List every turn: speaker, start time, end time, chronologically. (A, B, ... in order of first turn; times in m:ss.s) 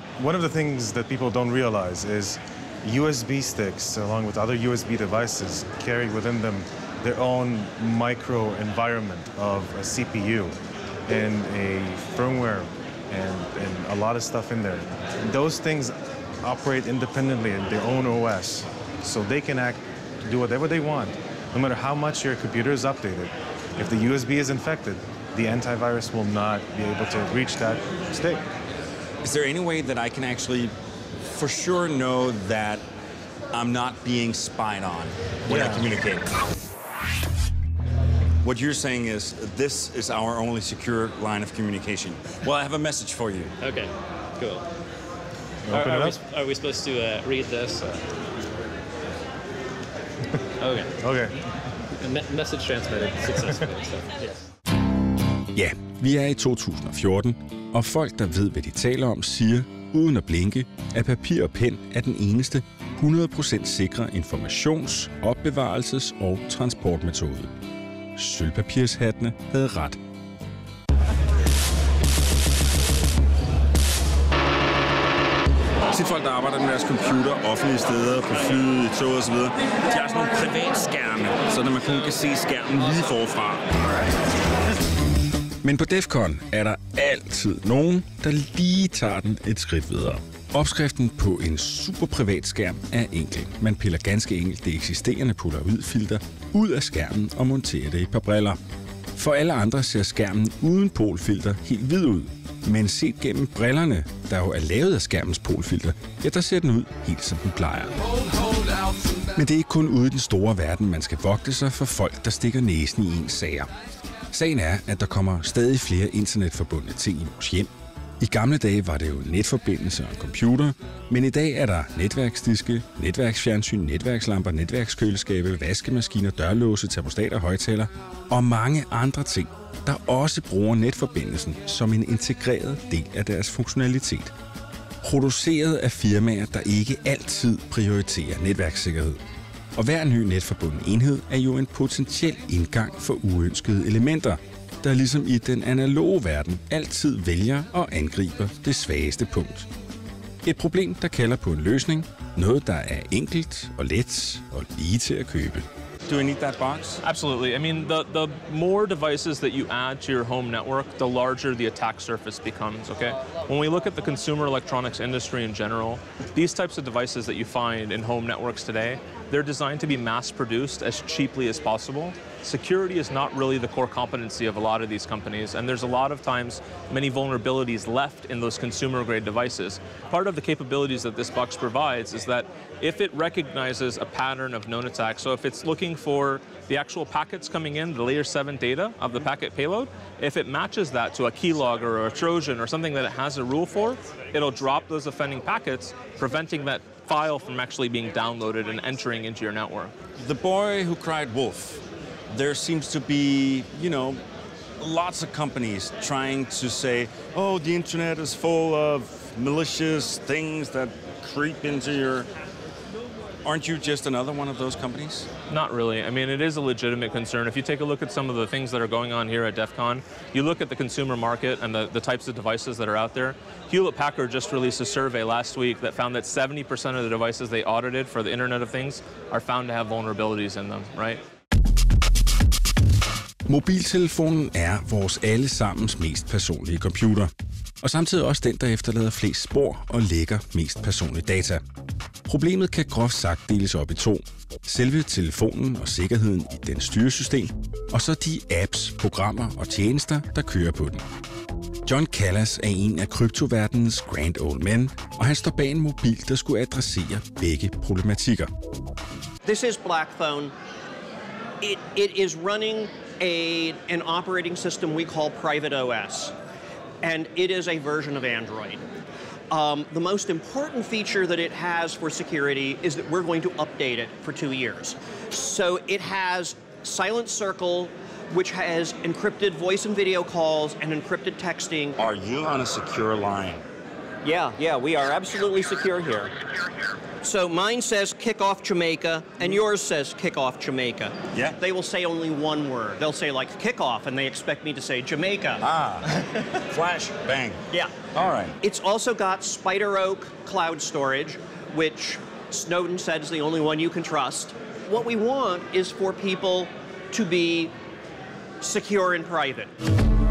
0:00.2-0:28.4 A
0:29.2-0:32.8 B
0:33.5-0:36.3 B
0:35.5-0:35.9 A
0:38.4-0:43.5 B
0:43.6-0:44.6 C
0:45.7-0:46.2 A
0:45.7-0:48.0 C
0:50.6-0:51.1 C
0:51.0-0:51.3 A
0:52.0-0:54.4 C
0:55.5-1:07.5 D
1:08.2-1:10.0 D
1:15.9-1:23.8 B
1:25.6-1:38.6 D
1:39.1-1:48.0 D
1:49.3-1:53.7 D
1:54.3-2:14.3 D
2:15.0-2:19.2 D
2:19.8-2:29.7 D
2:30.4-2:35.7 D
2:36.0-2:37.0 B
2:37.0-3:19.9 E
3:20.2-3:24.2 B
3:24.8-3:32.3 B
3:33.4-3:35.3 B
3:35.5-3:51.2 E
3:53.5-4:01.6 D
4:02.2-4:11.0 D
4:11.8-4:18.5 D
4:19.4-4:20.5 F
4:21.6-4:26.3 F
4:27.0-4:28.8 F
4:29.5-4:42.0 F
4:42.0-4:43.6 B
4:44.2-4:46.3 F
4:47.2-4:55.6 F
4:51.3-4:51.6 B
4:55.6-4:58.6 B
4:58.6-5:07.7 F
5:08.6-5:09.7 F